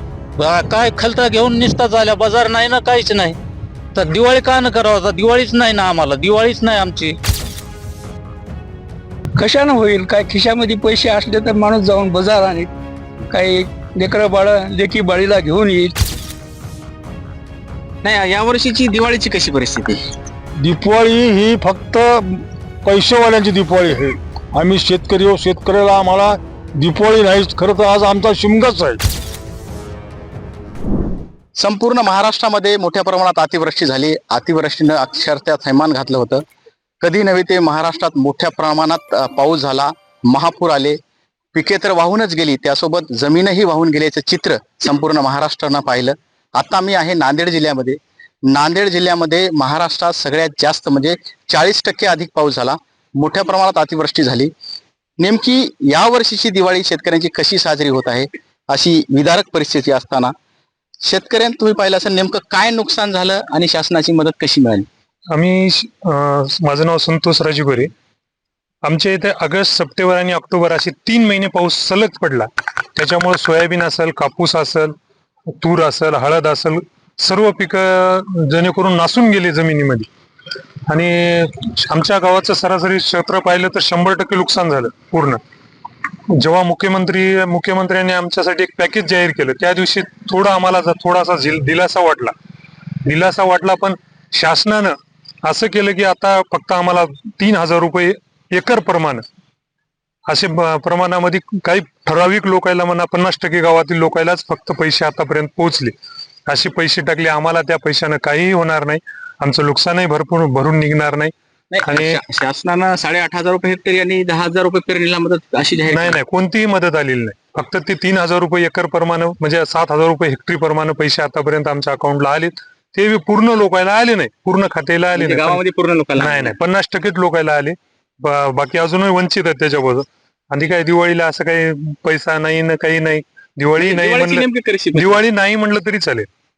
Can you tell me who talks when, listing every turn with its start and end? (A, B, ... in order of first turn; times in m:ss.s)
0:00.4-0:03.4 A
0:03.9-0:07.2 A
0:09.4-0:12.7 B
0:13.3-0:15.9 B
0:18.0-0:20.0 C
0:20.6-0:29.0 D
0:31.6-0:36.4 C
0:37.0-0:41.0 C
0:41.5-0:54.5 C
0:55.2-1:00.3 C
1:01.0-1:04.8 C
1:05.3-1:07.9 E
1:08.8-1:14.9 E
1:15.6-1:20.1 E
1:20.9-1:25.4 E
1:26.4-1:32.3 E
1:33.0-1:34.9 E
1:35.4-1:39.2 E
1:40.3-1:45.9 E
1:46.5-1:51.3 E
1:51.7-1:56.2 C
1:51.8-1:52.2 E
1:55.9-2:05.6 E
2:05.1-2:06.5 C
2:06.2-2:16.2 E
2:13.8-2:15.2 C